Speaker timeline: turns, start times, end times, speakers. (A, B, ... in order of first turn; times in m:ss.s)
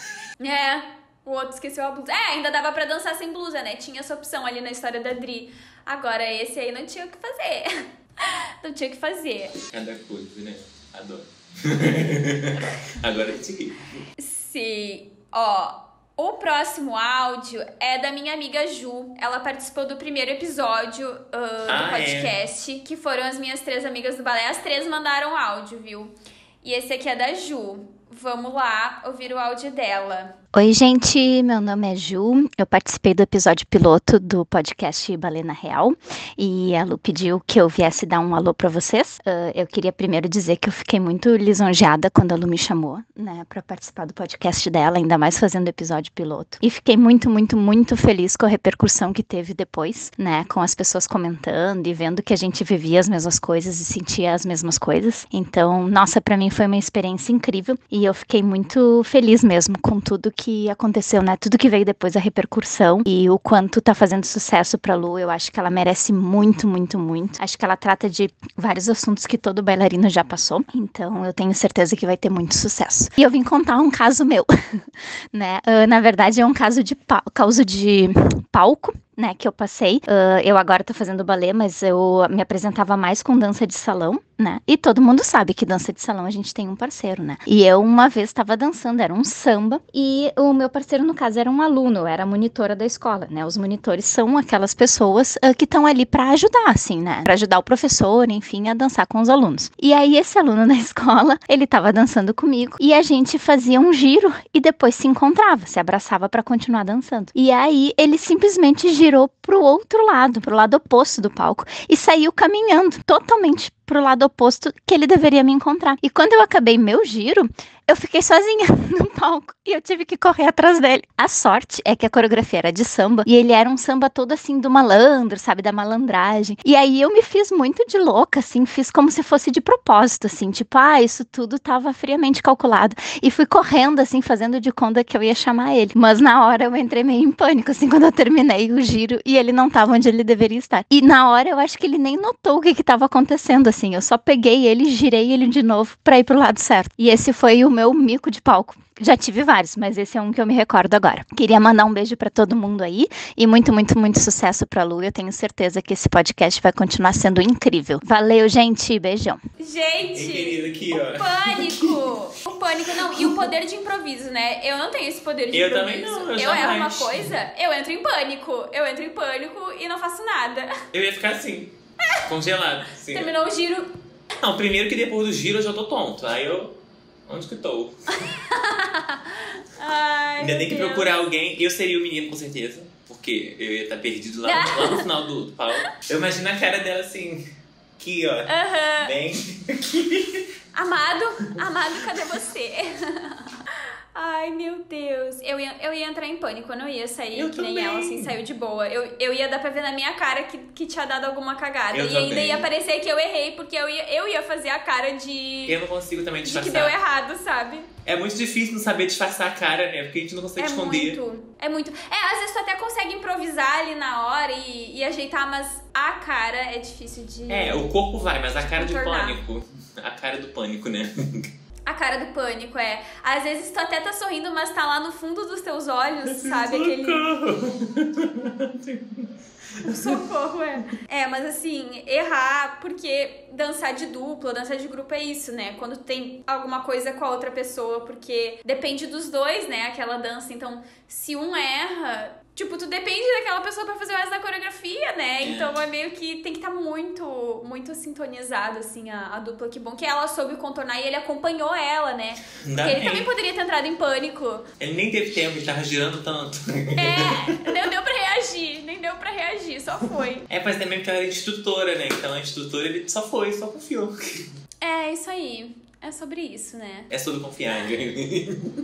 0:00.4-0:09.5 A
0:09.6-0:14.0 B
0:14.2-0:30.3 A
0:21.7-0:22.3 B
0:30.5-2:39.4 C
2:39.6-2:40.6 A
2:40.1-2:42.0 B
2:41.1-2:50.7 A
2:43.0-2:43.4 B
2:45.5-2:47.3 B
2:50.9-2:51.7 B
2:52.2-2:53.3 B
2:53.1-2:53.9 A
2:54.4-2:56.7 B
2:57.3-2:58.1 B
2:58.5-3:01.3 A
3:00.4-3:07.4 B
3:04.4-3:05.0 A
3:08.0-3:08.5 B
3:08.5-3:09.1 A
3:09.0-3:10.4 B
3:10.7-3:13.3 A
3:14.1-3:25.8 A
3:17.3-3:18.3 B
3:21.9-3:22.6 B
3:25.7-3:26.9 B
3:26.4-3:27.9 A
3:28.0-3:31.2 B
3:30.6-3:37.9 A
3:37.5-3:41.5 B
3:38.6-3:39.4 A
3:41.9-3:47.2 A
3:46.3-3:49.3 B
3:49.8-3:50.2 B
3:49.9-4:14.6 A
4:05.4-4:05.7 B
4:12.6-4:13.3 B
4:14.8-4:17.4 B
4:17.0-4:20.4 A
4:20.5-4:24.4 B
4:24.8-4:27.1 A
4:27.1-4:28.7 B